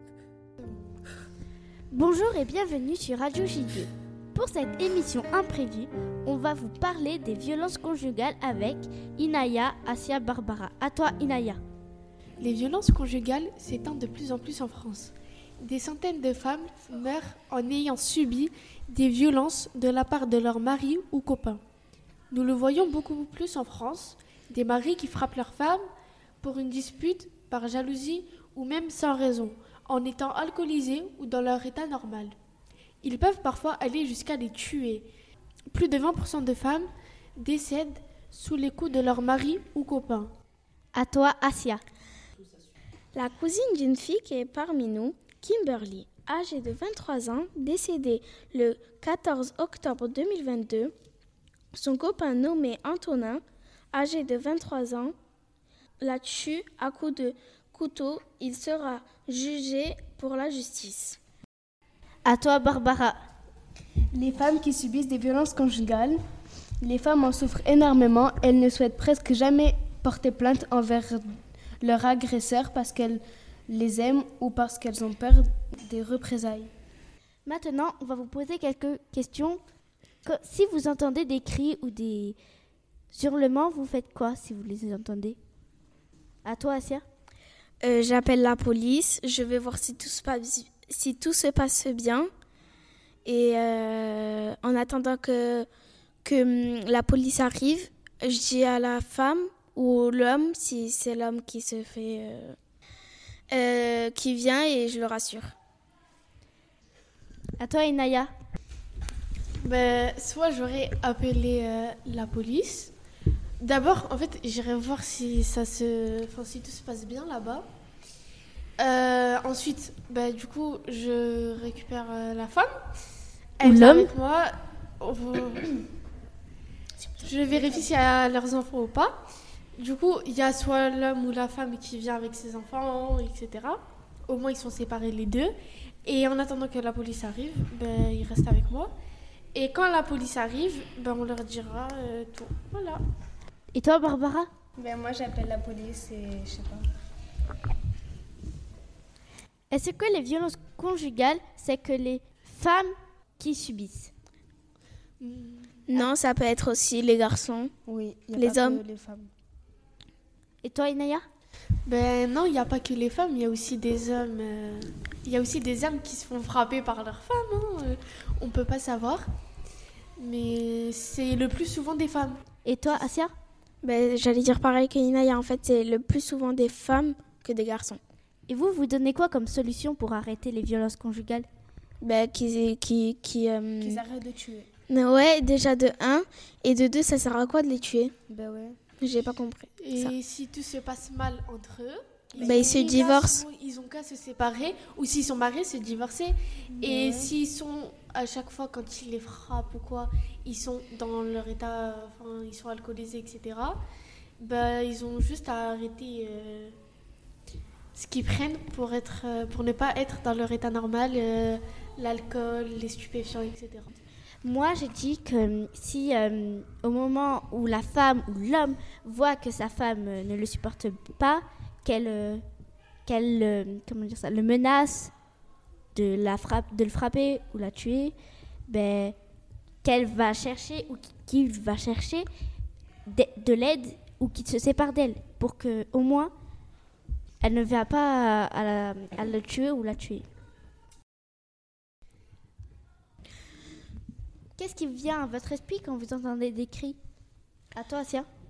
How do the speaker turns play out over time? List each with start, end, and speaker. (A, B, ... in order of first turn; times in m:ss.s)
0:01.9-0:11.6 A
0:12.4-0:21.6 B
0:22.3-0:25.8 B
0:26.4-0:32.3 B
0:33.0-0:35.1 B
0:35.7-0:40.3 B
0:41.0-0:41.8 A
0:43.1-0:50.9 C
0:51.7-0:55.1 C
0:56.0-1:01.2 C
1:02.3-1:03.2 A
1:04.2-1:06.2 D
1:06.8-1:16.7 D
1:17.5-1:19.6 A
1:20.2-1:22.4 A
1:23.1-1:25.4 A
1:26.4-1:27.0 A
1:27.8-1:32.3 C
1:33.2-1:35.7 C
1:36.2-1:42.6 C
1:43.5-1:45.6 C
1:47.6-1:48.3 A
1:49.6-1:52.9 B
1:53.6-1:57.7 B
1:58.8-2:02.7 B
2:03.6-2:04.5 B
2:03.6-2:04.1 A
2:05.0-2:05.8 B
2:07.2-2:09.2 B
2:07.6-2:07.8 D
2:09.8-2:15.5 B
2:16.0-2:18.9 B
2:19.5-2:23.0 B
2:23.8-2:24.5 A
2:24.8-2:26.8 D
2:29.7-2:34.1 A
2:35.2-2:36.1 B
2:35.9-2:37.7 C
2:37.9-2:39.3 D
2:38.4-2:38.8 C
2:40.6-2:41.2 A
2:41.9-2:49.2 B
2:50.2-2:52.4 B
2:52.6-2:53.3 A
2:53.8-2:58.0 C
2:58.5-3:01.5 A
3:02.0-3:04.0 C
3:03.8-3:04.7 D
3:04.9-3:08.1 C
3:08.3-3:08.8 D
3:09.0-3:10.1 C
3:09.8-3:23.8 B
3:12.4-3:12.7 D
3:12.4-3:13.4 C
3:16.8-3:17.3 D
3:24.4-3:26.7 B
3:28.0-3:34.0 B
3:34.4-3:42.4 A
3:43.1-3:45.1 A
3:45.9-3:48.2 A
3:48.7-3:49.2 A
3:49.8-3:52.3 A
3:53.1-3:56.3 A
3:57.4-4:00.3 A
4:04.6-4:07.0 A
4:07.8-4:08.3 A